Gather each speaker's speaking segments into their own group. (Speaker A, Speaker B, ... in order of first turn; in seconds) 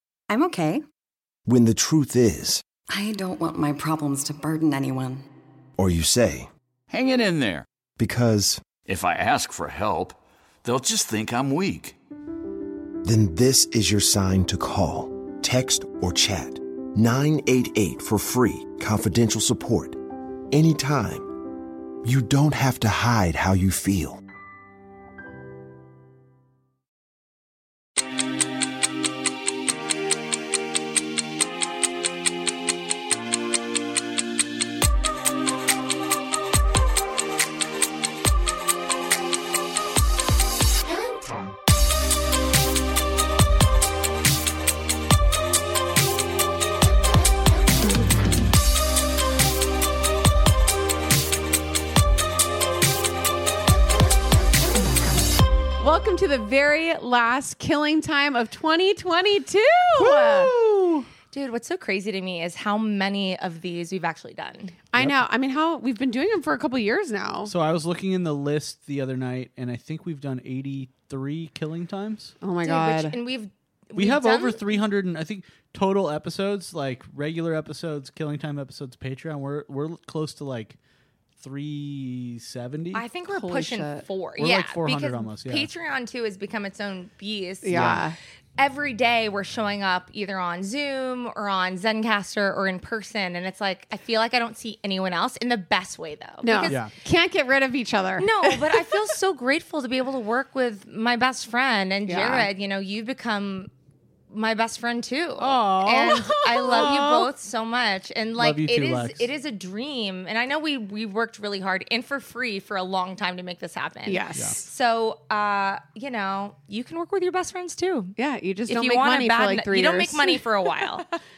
Speaker A: 0.3-0.8, 2.9-5.2
Speaker B: 1.5-2.6, 5.8-6.5, 8.0-8.7, 13.0-20.0, 20.5-21.3, 22.0-24.2
Speaker C: 6.9-7.7, 8.8-12.0
Speaker D: 55.8-60.5, 64.9-67.5, 72.4-73.2, 83.3-84.0, 87.6-88.2, 96.4-99.0, 102.1-102.5, 106.1-107.0, 114.1-114.6, 118.2-120.8
Speaker E: 60.0-61.1, 67.5-72.3, 74.0-80.8, 81.4-83.0, 84.4-85.7, 87.7-88.0, 96.7-96.9, 105.4-107.3, 108.4-109.3
Speaker F: 61.3-64.8, 72.6-74.6, 82.9-88.0, 88.6-96.8, 98.2-103.7, 104.3-118.1, 118.7-121.1